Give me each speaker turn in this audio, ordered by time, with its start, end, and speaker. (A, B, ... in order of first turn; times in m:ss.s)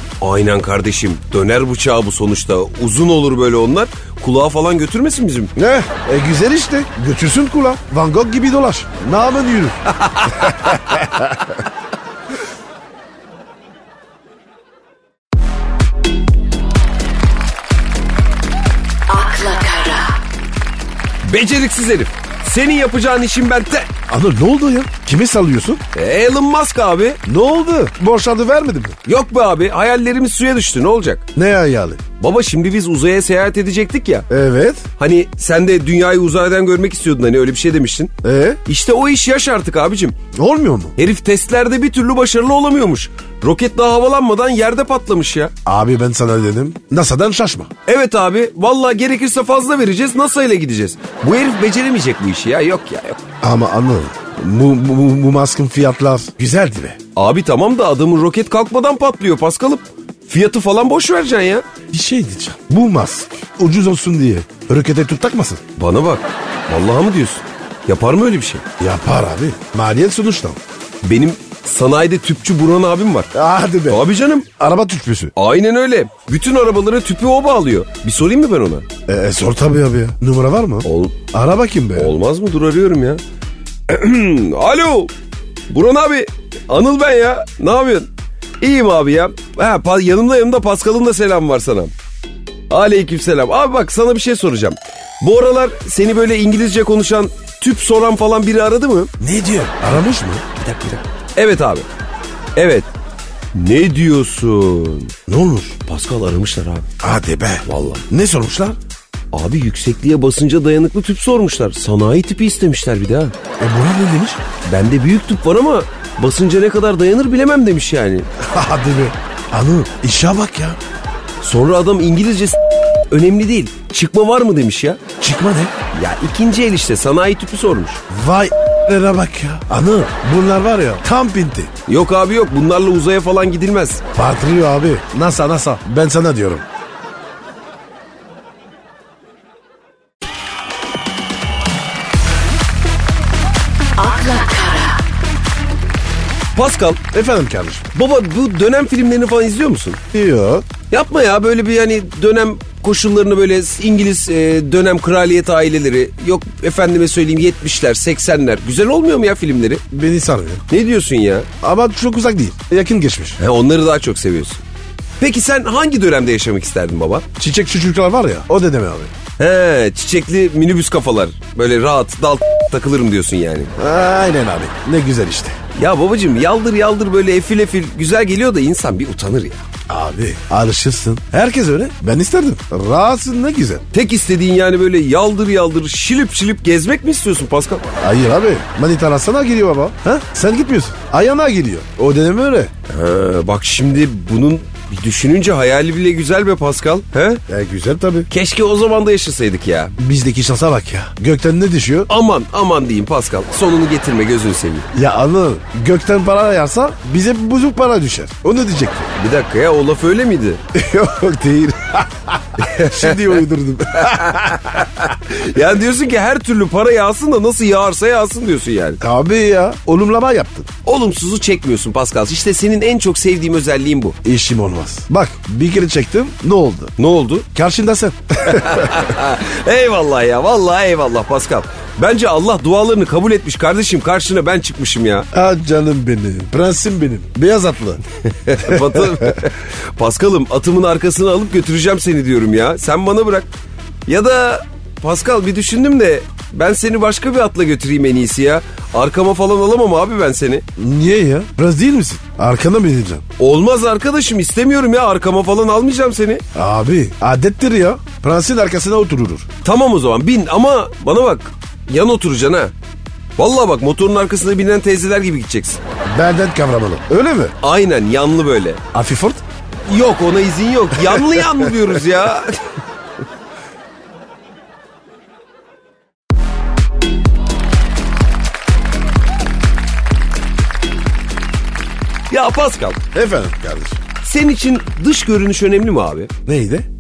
0:00.2-0:05.5 A
0:05.6-0:09.8 B
0:10.0-0:11.0 A
0:10.5-0:11.4 B
0:19.1-0:20.1 C
0:21.2-0:23.9 A
0:24.1-0:25.8 B
0:25.9-0:27.2 A
0:27.3-0:29.0 B
0:29.0-0:31.2 A
0:31.4-0:32.0 B
0:32.2-0:34.3 A
0:34.3-0:34.8 B
0:35.0-0:38.1 A
0:38.2-0:38.6 B
0:38.6-0:40.2 A
0:40.3-0:41.0 B
0:41.0-0:45.5 A
0:45.7-0:47.7 B
0:47.9-0:53.2 A
0:53.4-0:57.0 B
0:57.2-1:01.7 A
1:01.9-1:05.6 B
1:05.8-1:08.6 A
1:08.8-1:10.6 B
1:11.0-1:13.3 A
1:13.3-1:14.1 B
1:13.9-1:14.5 A
1:14.6-1:15.3 B
1:15.4-1:18.9 A
1:19.1-1:22.1 B
1:20.8-1:21.2 A
1:22.0-1:23.2 A
1:23.9-1:25.1 A
1:25.7-1:28.1 A
1:28.6-1:31.9 A
1:32.7-1:39.1 A
1:39.2-1:40.4 B
1:40.6-1:41.9 A
1:42.6-1:42.9 A
1:43.5-1:45.1 A
1:45.3-1:45.8 B
1:45.8-1:46.9 A
1:47.0-1:48.8 B
1:47.7-1:48.0 A
1:49.3-1:53.4 A
1:53.6-1:54.4 B
1:54.6-1:58.3 A
1:58.4-2:00.8 B
2:01.4-2:02.6 A
2:03.1-2:05.0 A
2:05.2-2:05.7 B
2:05.9-2:08.0 A
2:08.1-2:11.7 B
2:11.9-2:14.0 A
2:14.2-2:16.6 B
2:24.0-2:24.9 C
2:26.6-2:27.0 A
2:27.1-2:27.9 B
2:27.9-2:30.0 A
2:30.1-2:30.7 B
2:30.9-2:39.8 A
2:39.9-2:40.6 B
2:40.7-2:41.5 A
2:41.6-2:43.4 B
2:43.4-2:44.6 A
2:45.2-2:47.2 A
2:47.4-2:49.1 B
2:49.4-2:53.7 A
2:53.8-2:55.6 B
2:55.8-2:59.6 A
2:59.9-3:03.8 B
3:03.9-3:07.8 A
3:08.0-3:12.7 B
3:12.9-3:17.4 A
3:17.5-3:18.3 B
3:18.3-3:20.0 A
3:20.0-3:22.1 B
3:22.1-3:24.9 A
3:24.9-3:29.1 B
3:29.2-3:30.6 A
3:30.7-3:34.8 B
3:32.8-3:33.4 A
3:34.0-3:39.0 A
3:39.0-3:40.7 B
3:40.8-3:44.2 A
3:44.2-3:46.9 B
3:47.0-3:47.5 A
3:47.6-3:49.0 B
3:48.4-3:55.3 A
3:55.3-3:58.0 B
3:58.2-4:03.5 A
3:58.6-3:59.4 B
4:04.1-4:10.6 A
4:10.8-4:13.2 B
4:13.4-4:16.4 A
4:16.6-4:19.5 B
4:19.6-4:22.7 A
4:23.4-4:25.8 A
4:26.0-4:27.6 B
4:27.6-4:28.8 A
4:28.9-4:29.4 B
4:29.9-4:32.8 A
4:42.3-4:43.0 A
4:43.1-4:44.0 B
4:44.2-4:46.3 A
4:46.5-4:46.9 B